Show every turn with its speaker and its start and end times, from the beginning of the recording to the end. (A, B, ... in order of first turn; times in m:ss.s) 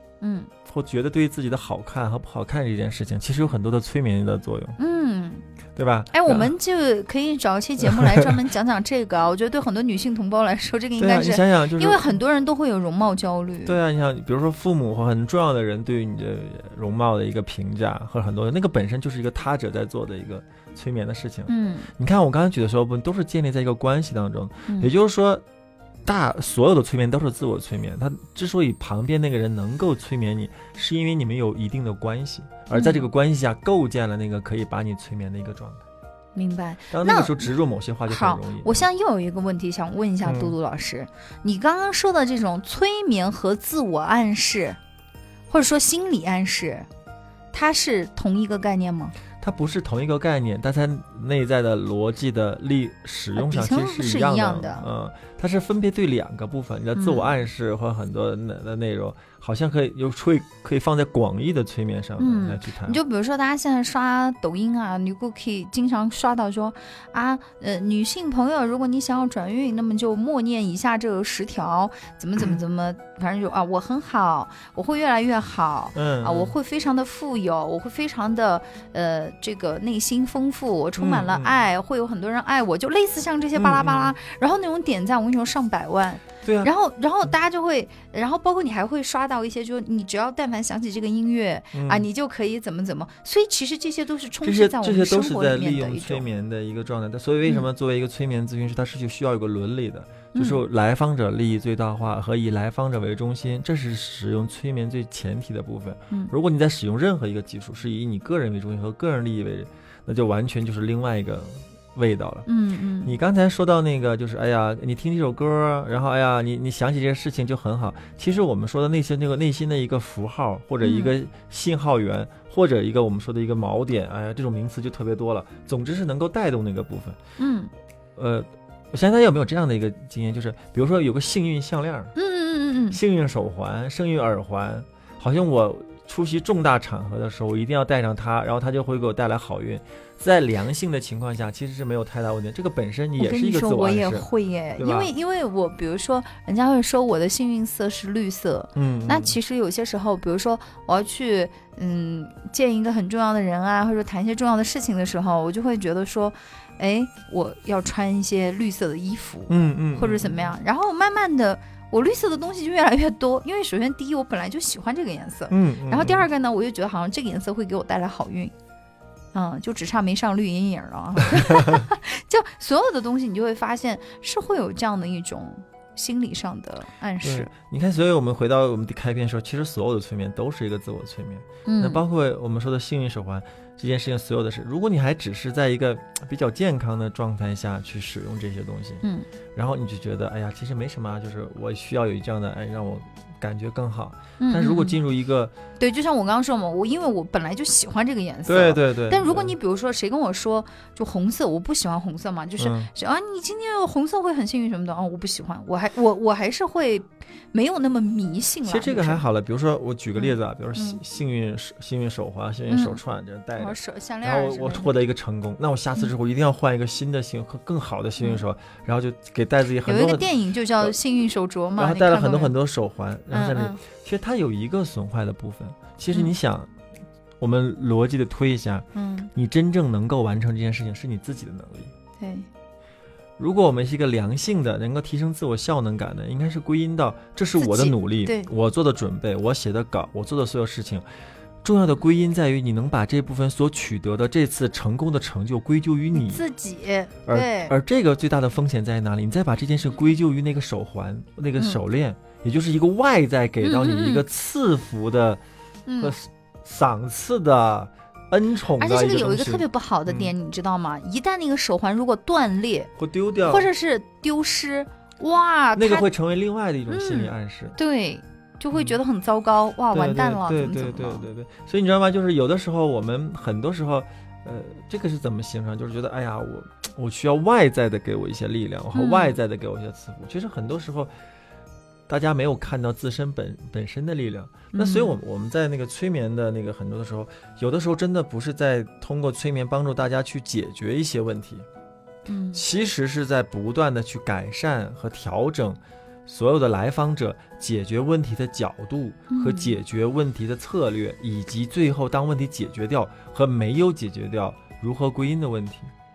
0:00.2-0:00.5 A
0:00.6-0:04.8 B
0:04.8-0:05.4 A
0:05.8-0:06.5 B
0:06.1-0:13.8 A
0:07.8-0:08.3 B
0:11.0-0:12.1 B
0:13.6-0:25.4 B
0:21.5-0:21.9 A
0:26.0-0:35.8 B
0:32.7-0:33.0 A
0:36.3-0:37.5 A
0:36.9-0:38.8 B
0:38.1-0:44.8 A
0:40.2-0:40.5 B
0:45.5-0:46.9 A
0:47.5-0:49.1 A
0:49.4-1:03.0 B
0:53.3-0:54.8 A
0:56.9-0:57.3 A
1:02.2-1:36.2 A
1:15.9-1:16.5 B
1:21.0-1:21.5 B
1:23.6-1:24.1 B
1:26.4-1:26.7 B
1:31.7-1:32.0 B
1:34.4-1:52.5 B
1:40.3-1:40.6 A
1:52.4-1:53.1 A
1:53.0-2:07.2 B
2:00.8-2:01.1 A
2:07.4-2:07.7 A
2:08.2-2:12.1 B
2:12.2-2:13.0 A
2:12.9-2:25.1 B
2:23.2-2:48.5 A
2:28.8-2:29.4 B
2:39.5-2:40.5 B
2:45.5-2:46.2 B
2:49.3-2:57.5 A
2:51.4-2:51.8 B
2:57.2-3:09.0 B
3:01.6-3:02.0 A
3:09.5-3:15.5 B
3:14.4-3:15.0 A
3:15.8-3:29.2 A
3:18.4-3:19.5 B
3:22.6-3:22.9 B
3:28.6-3:41.0 B
3:30.2-3:31.0 A
3:32.7-3:33.0 A
3:33.6-3:34.9 A
3:39.8-3:42.5 A
3:41.8-3:46.7 B
3:43.3-3:43.8 A
3:47.4-3:51.9 B
3:48.9-3:49.3 A
3:52.2-3:52.5 A
3:53.4-4:01.0 B
3:57.6-3:58.5 A
4:01.6-4:06.4 B
4:06.1-4:07.8 A
4:07.2-4:15.4 B
4:13.6-4:14.2 A
4:15.9-4:16.1 A
4:16.0-4:20.3 B
4:18.8-4:22.9 A
4:23.0-4:23.7 B
4:23.4-4:26.1 A
4:25.8-4:27.8 B
4:26.9-4:31.3 A
4:29.9-4:41.1 B
4:38.9-4:39.4 A
4:42.1-4:51.6 B
4:44.7-4:45.2 A
4:52.3-4:52.6 A
4:52.5-5:05.9 B
4:59.3-4:59.8 A